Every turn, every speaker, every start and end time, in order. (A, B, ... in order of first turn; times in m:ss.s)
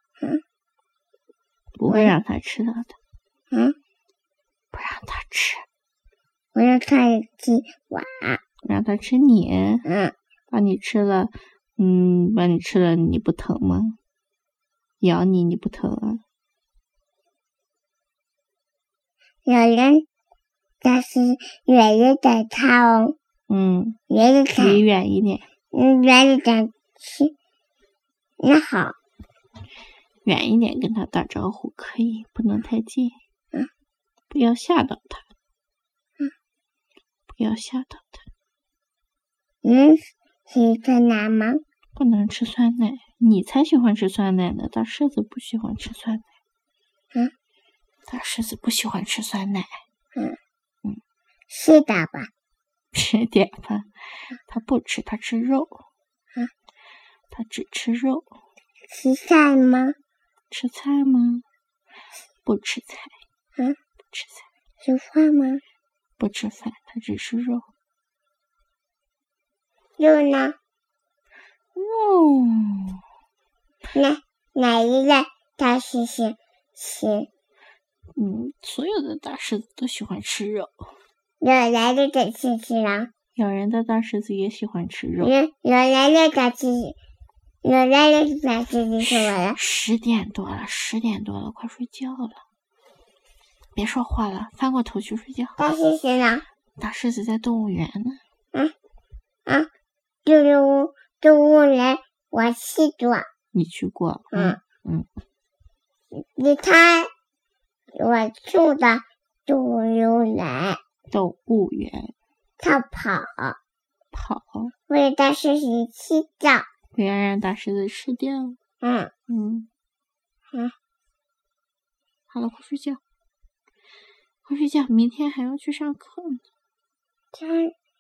0:01.8-0:03.0 A
0:01.9-0:02.1 B
0:03.5-0:03.8 B
0:04.7-0:05.7 A
0:06.6-0:08.4 B
0:08.6-0:09.8 A
0:09.8-0:10.1 B
0:10.5-0:14.0 A
0:15.0-0:16.2 A
0:19.4-0:20.1 B
0:20.8-0:23.2 B
0:23.5-0:24.0 A
0:24.1-0:24.8 B
0:24.6-0:25.4 A
0:25.7-0:27.3 B
0:28.4-0:29.0 B
0:30.2-0:33.2 A
0:34.3-0:35.2 A
0:37.3-0:38.2 A
0:39.6-0:41.6 B
0:42.0-0:46.3 A
0:48.1-0:49.8 A
0:51.5-0:52.3 B
0:52.9-0:55.8 A
0:57.3-0:58.3 A
0:58.9-1:00.0 B
1:00.5-1:01.4 A
1:02.4-1:03.1 A
1:04.1-1:04.5 A
1:04.8-1:05.6 B
1:06.2-1:07.7 A
1:10.0-1:10.6 B
1:11.8-1:13.0 A
1:13.9-1:17.3 B
1:18.2-1:20.9 A
1:21.4-1:23.1 B
1:23.4-1:25.3 A
1:25.2-1:27.0 B
1:27.6-1:29.6 B
1:29.1-1:32.4 A
1:33.8-1:35.7 A
1:35.6-1:36.4 B
1:36.8-1:38.2 A
1:40.2-1:43.3 B
1:43.5-1:45.1 A
1:44.3-1:44.6 B
1:46.2-1:47.1 B
1:47.9-1:50.8 B
1:51.1-1:52.1 A
1:52.6-1:53.6 B
1:54.1-1:54.7 A
1:54.9-1:56.7 B
1:56.9-1:58.6 A
1:58.8-1:59.1 B
1:59.3-1:59.7 A
2:02.3-2:03.0 A
2:04.4-2:06.4 A
2:07.3-2:07.7 B